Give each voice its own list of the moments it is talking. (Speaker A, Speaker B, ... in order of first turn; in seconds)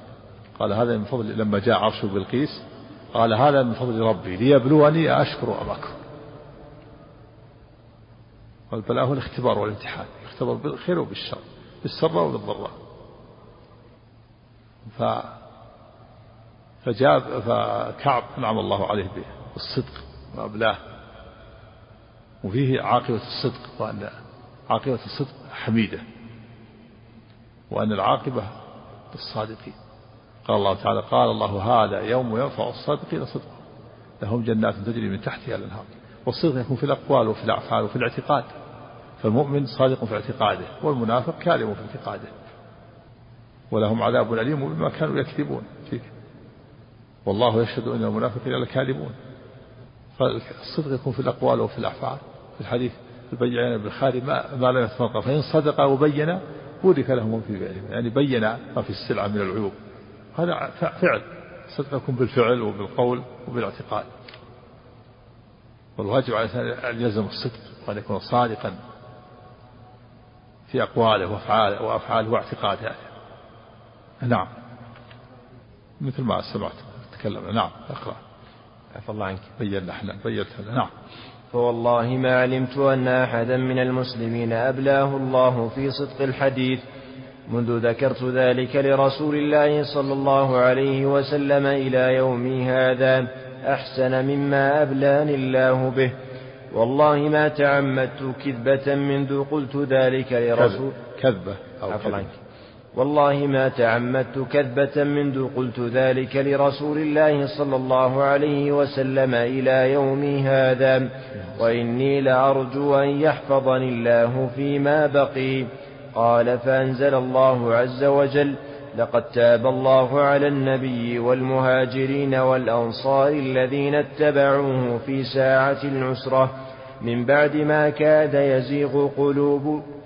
Speaker A: 0.6-6.0, 8.7-12.7, 14.8-15.3, 16.8-20.8, 22.4-24.1, 24.7-26.0, 27.7-28.5, 29.1-29.8, 30.4-33.6, 34.2-38.5, 39.2-42.3, 43.7-46.1, 47.2-49.1, 50.2-59.8, 60.4-64.1, 66.0-68.8, 70.7-73.0, 74.2-74.5, 76.0-78.2, 79.6-80.9, 100.5-102.3
Speaker B: 78.9-79.5, 81.5-86.8, 87.5-96.1, 96.7-101.0, 101.9-102.3, 102.9-129.8